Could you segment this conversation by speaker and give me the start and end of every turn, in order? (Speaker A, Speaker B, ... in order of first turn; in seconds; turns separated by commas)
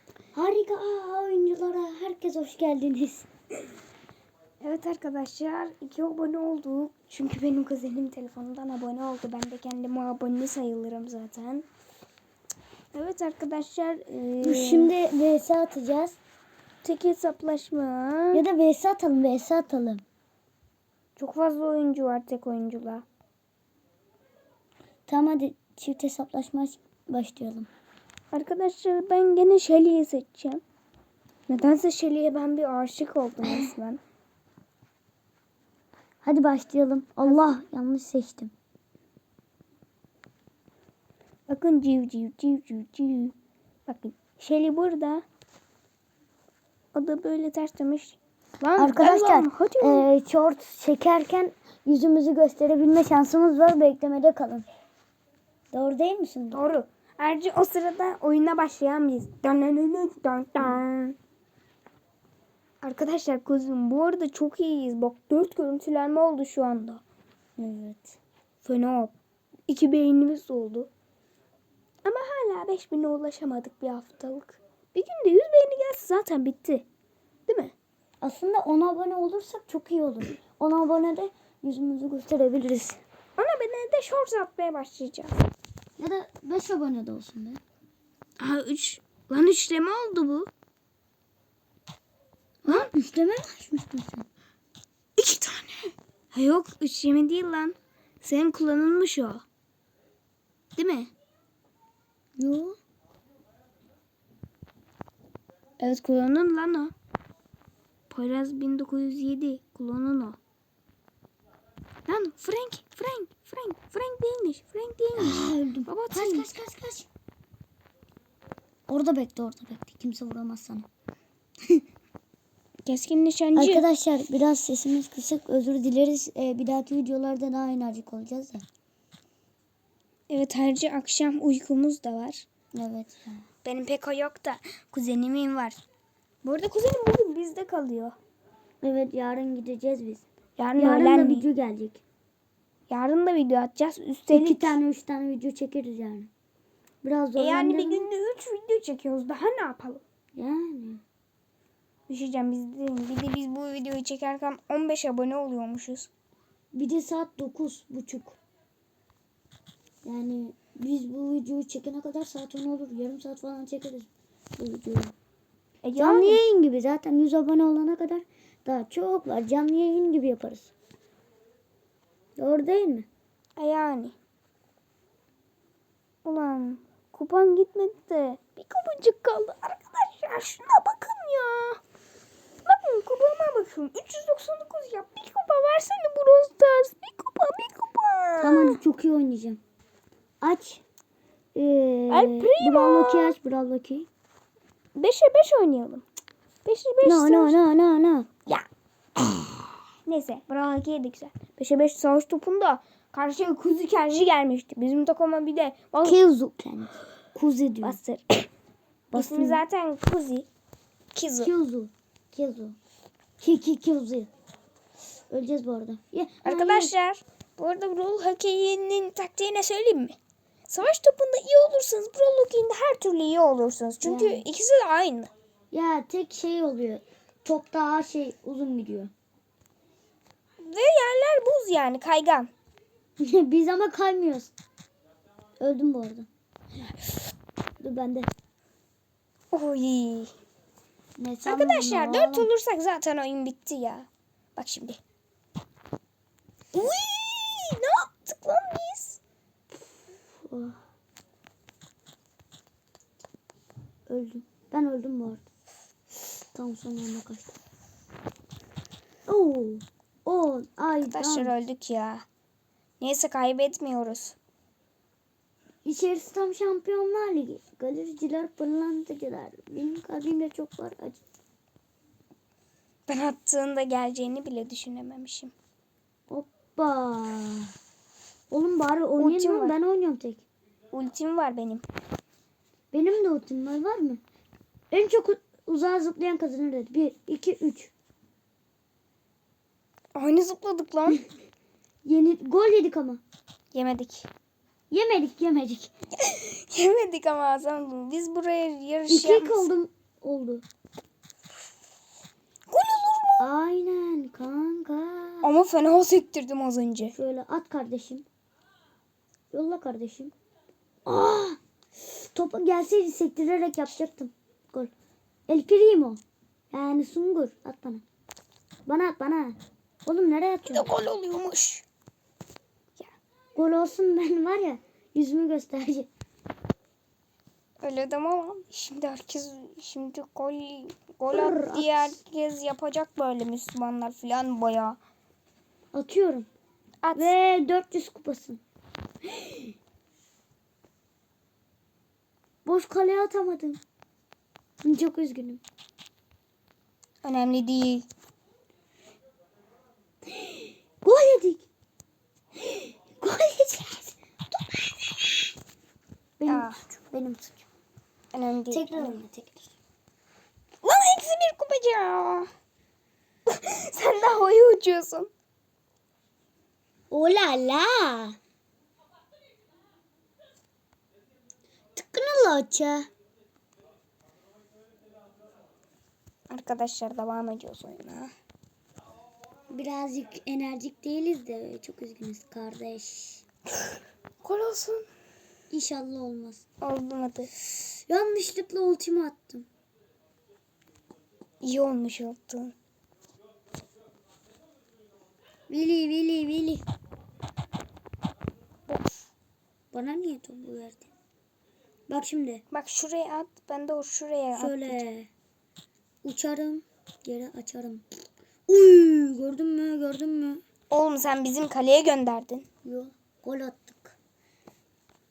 Speaker A: 0.3-3.3, Speaker B: 4.6-11.7, Speaker B: 12.9-14.9, Speaker A: 14.4-16.2, Speaker B: 16.8-18.4, Speaker A: 18.3-20.0, Speaker B: 21.2-23.1, Speaker A: 25.1-27.7, Speaker B: 28.3-30.6, Speaker B: 31.5-34.0, Speaker A: 33.5-33.7, Speaker A: 36.2-38.5, Speaker B: 37.2-37.6, Speaker B: 41.5-43.3, Speaker B: 43.9-45.2, Speaker B: 46.9-50.1, Speaker A: 48.8-54.7, Speaker A: 55.7-56.6, Speaker B: 56.5-61.2, Speaker B: 62.8-67.0, Speaker A: 67.6-68.2, Speaker B: 68.6-69.1, Speaker B: 69.7-70.9, Speaker B: 72.0-76.8, Speaker B: 77.5-77.7, Speaker A: 78.2-83.0, Speaker B: 83.4-85.4, Speaker A: 86.0-87.6, Speaker B: 88.4-90.5, Speaker A: 92.7-94.3, Speaker B: 95.2-99.4, Speaker B: 100.8-101.1, Speaker A: 102.4-102.8, Speaker B: 105.8-106.9, Speaker B: 108.1-110.4, Speaker B: 112.1-116.5, Speaker A: 115.2-117.1, Speaker A: 118.9-120.9, Speaker B: 122.8-123.8, Speaker A: 123.6-128.6, Speaker B: 130.3-132.5, Speaker A: 132.7-133.4, Speaker B: 133.6-135.8, Speaker B: 136.4-138.2, Speaker A: 138.8-140.2, Speaker B: 140.6-141.5, Speaker A: 140.8-142.0, Speaker B: 142.9-144.8, Speaker A: 144.3-146.3, Speaker A: 147.0-148.1, Speaker B: 147.4-150.0, Speaker A: 150.3-151.0, Speaker B: 152.1-156.1, Speaker A: 156.7-158.4, Speaker A: 160.0-165.1, Speaker B: 165.8-166.4, Speaker A: 166.0-170.7, Speaker A: 172.4-173.1, Speaker B: 173.6-174.2, Speaker B: 176.2-181.8, Speaker B: 182.7-188.8, Speaker A: 188.4-189.6, Speaker A: 190.4-190.8, Speaker A: 191.6-194.1, Speaker B: 192.1-193.4, Speaker B: 194.9-196.1, Speaker B: 196.7-197.6, Speaker A: 197.0-198.3, Speaker B: 200.1-206.2, Speaker A: 206.0-208.0, Speaker B: 207.8-208.5, Speaker A: 209.1-209.6, Speaker B: 209.2-210.5, Speaker B: 211.1-211.5, Speaker A: 211.4-212.8, Speaker A: 213.4-214.3, Speaker A: 215.3-216.9, Speaker B: 216.4-220.2, Speaker B: 220.7-225.3, Speaker A: 224.0-224.4, Speaker A: 225.7-229.1, Speaker B: 230.6-232.5, Speaker A: 233.2-234.5, Speaker A: 235.6-236.3, Speaker A: 237.8-238.3, Speaker B: 239.5-240.3, Speaker A: 241.2-242.5, Speaker B: 241.4-245.0, Speaker B: 246.7-249.2, Speaker A: 250.4-250.8, Speaker A: 254.1-255.4, Speaker A: 256.5-257.6, Speaker A: 259.3-261.5, Speaker B: 261.0-262.3, Speaker B: 263.0-264.4, Speaker A: 265.9-271.2, Speaker B: 273.1-275.5, Speaker A: 276.3-277.7, Speaker A: 278.5-280.4, Speaker B: 279.2-279.8, Speaker B: 280.9-281.9, Speaker A: 282.9-284.2, Speaker A: 284.9-287.9, Speaker B: 290.1-291.2, Speaker A: 292.1-293.2, Speaker B: 293.7-294.3, Speaker A: 294.9-295.9, Speaker B: 296.2-299.7, Speaker A: 299.1-300.6, Speaker B: 302.7-303.4, Speaker A: 303.4-305.5, Speaker B: 305.4-307.1, Speaker A: 307.1-308.3, Speaker A: 309.5-310.3, Speaker A: 311.1-314.9, Speaker A: 315.5-316.2, Speaker A: 316.7-318.0, Speaker A: 318.9-320.9, Speaker B: 320.7-321.9, Speaker A: 323.6-326.1, Speaker B: 327.8-335.0, Speaker A: 331.3-332.2, Speaker A: 335.9-336.5, Speaker B: 337.0-337.4, Speaker A: 337.1-338.6, Speaker A: 339.3-339.7, Speaker A: 342.6-343.8, Speaker A: 344.8-345.6, Speaker B: 347.2-348.1, Speaker A: 350.5-351.7, Speaker A: 352.6-355.4, Speaker A: 356.4-357.7, Speaker B: 356.5-356.8, Speaker B: 358.3-359.2, Speaker A: 358.7-359.8, Speaker B: 360.8-362.5, Speaker B: 363.5-365.3, Speaker A: 367.1-368.4, Speaker A: 371.9-373.1, Speaker B: 376.5-378.3, Speaker A: 379.7-383.4, Speaker B: 384.4-385.1, Speaker A: 385.7-386.6, Speaker B: 386.8-387.5, Speaker A: 387.8-389.7, Speaker B: 391.6-392.7, Speaker A: 395.7-396.9, Speaker A: 399.9-401.1, Speaker A: 402.1-402.6, Speaker B: 402.7-405.1, Speaker A: 404.6-405.3, Speaker A: 406.2-408.1, Speaker A: 408.7-410.6, Speaker B: 410.9-412.7, Speaker A: 412.8-414.2